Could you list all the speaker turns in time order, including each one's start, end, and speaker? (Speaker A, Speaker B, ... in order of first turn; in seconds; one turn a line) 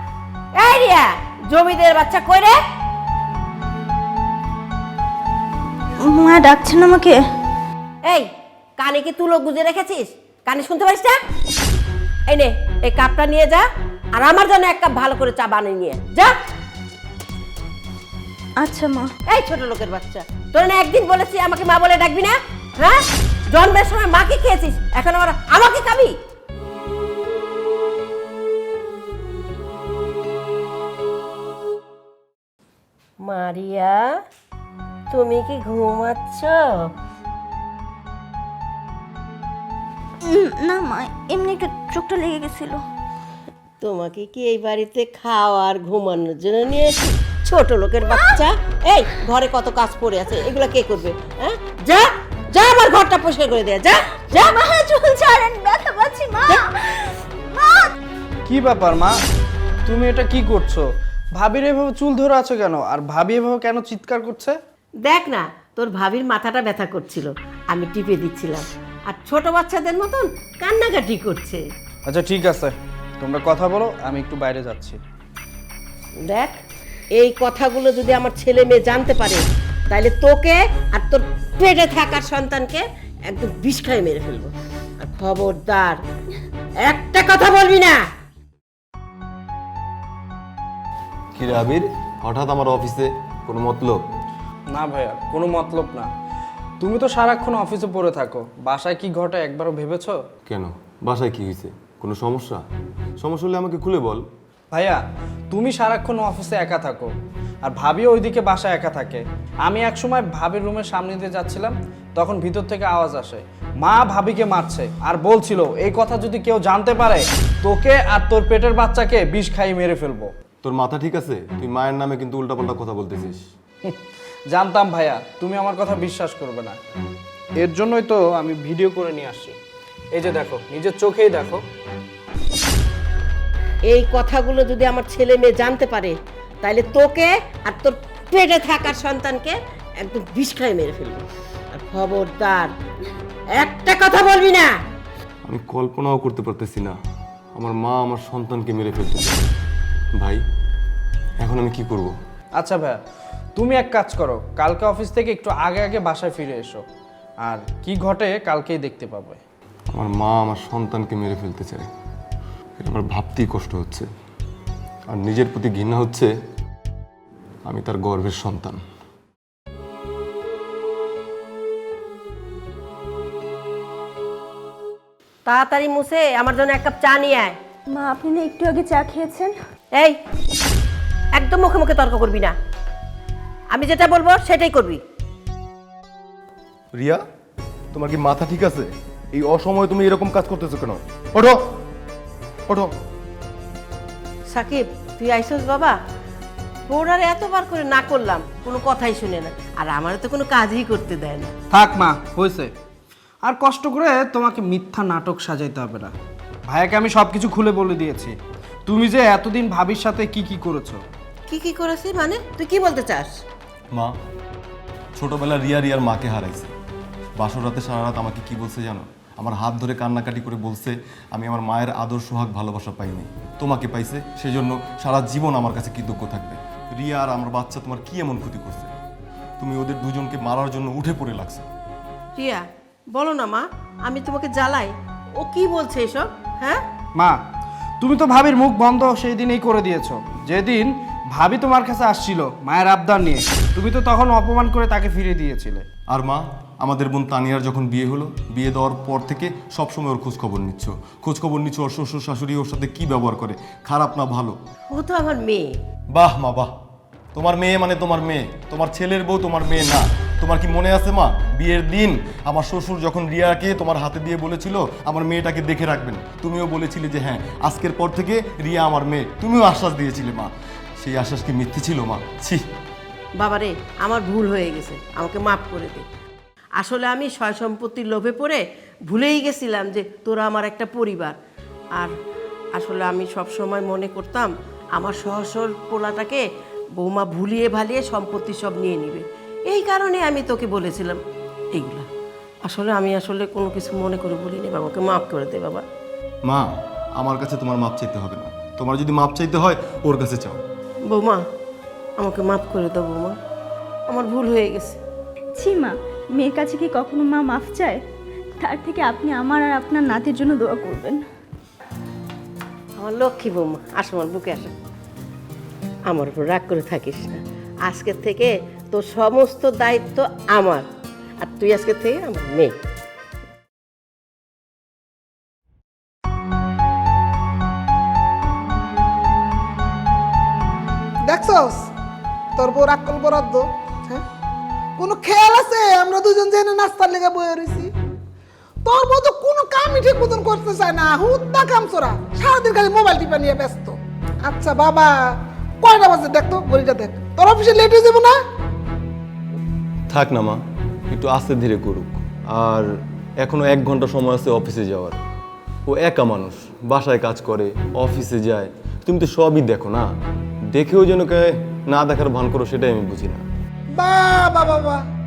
Speaker A: 0.6-2.5
Speaker B: 6.0-7.2
Speaker A: 8.0-11.2
Speaker A: 12.3-13.6
Speaker A: 14.2-16.3
Speaker B: 18.6-19.1
Speaker A: 19.3-26.1
Speaker A: 33.2-34.0
Speaker A: 35.1-36.6
Speaker B: 40.3-42.8
Speaker A: 43.8-54.6
Speaker B: 54.5-56.5
Speaker B: 57.5-57.8
Speaker C: 58.5-59.2
Speaker C: 59.9-64.6
Speaker A: 65.0-71.6
Speaker C: 72.1-75.0
Speaker A: 76.3-76.6
Speaker A: 77.2-86.0
Speaker A: 86.8-88.0
Speaker D: 91.3-94.0
Speaker C: 94.7-96.1
Speaker C: 96.8-100.2
Speaker D: 100.5-102.6
Speaker D: 103.2-104.2
Speaker C: 104.7-120.3
Speaker D: 120.6-123.4
Speaker C: 124.5-126.8
Speaker C: 127.6-129.6
Speaker C: 130.1-131.6
Speaker A: 133.9-142.7
Speaker A: 143.5-144.7
Speaker D: 145.4-146.9
Speaker D: 147.6-149.4
Speaker D: 151.4-152.1
Speaker C: 152.6-153.0
Speaker C: 153.5-156.8
Speaker C: 157.4-159.4
Speaker D: 159.9-161.9
Speaker D: 162.8-164.1
Speaker D: 165.1-166.3
Speaker D: 167.7-168.8
Speaker A: 175.4-177.6
Speaker B: 177.9-179.5
Speaker A: 181.3-182.5
Speaker A: 183.7-185.0
Speaker D: 186.9-187.2
Speaker D: 187.9-191.6
Speaker A: 194.5-195.9
Speaker A: 196.9-201.5
Speaker C: 201.7-202.7
Speaker C: 203.4-206.1
Speaker C: 206.6-211.0
Speaker A: 211.5-213.3
Speaker D: 215.2-216.7
Speaker D: 217.4-228.9
Speaker D: 229.6-231.6
Speaker A: 232.3-236.8
Speaker C: 237.2-237.4
Speaker C: 238.0-245.8
Speaker D: 246.1-254.6
Speaker A: 254.9-255.7
Speaker D: 256.1-256.7
Speaker D: 257.3-272.6
Speaker A: 273.4-276.0
Speaker A: 276.8-281.4
Speaker A: 282.8-286.4
Speaker A: 287.0-291.2
Speaker A: 291.7-292.1
Speaker A: 292.6-295.8
Speaker D: 296.4-300.6
Speaker A: 301.1-301.4
Speaker A: 302.2-303.4
Speaker A: 304.1-305.0
Speaker B: 305.5-308.0
Speaker B: 308.6-311.2
Speaker A: 313.0-314.7
Speaker A: 316.1-320.8
Speaker A: 321.4-322.7
Speaker E: 331.2-331.8
Speaker E: 332.6-334.2
Speaker E: 335.0-337.9
Speaker E: 338.8-345.1
Speaker E: 345.8-348.3
Speaker D: 350.1-350.6
Speaker D: 351.1-352.8
Speaker D: 353.4-355.2
Speaker D: 355.9-360.1
Speaker D: 360.7-363.4
Speaker E: 363.9-365.0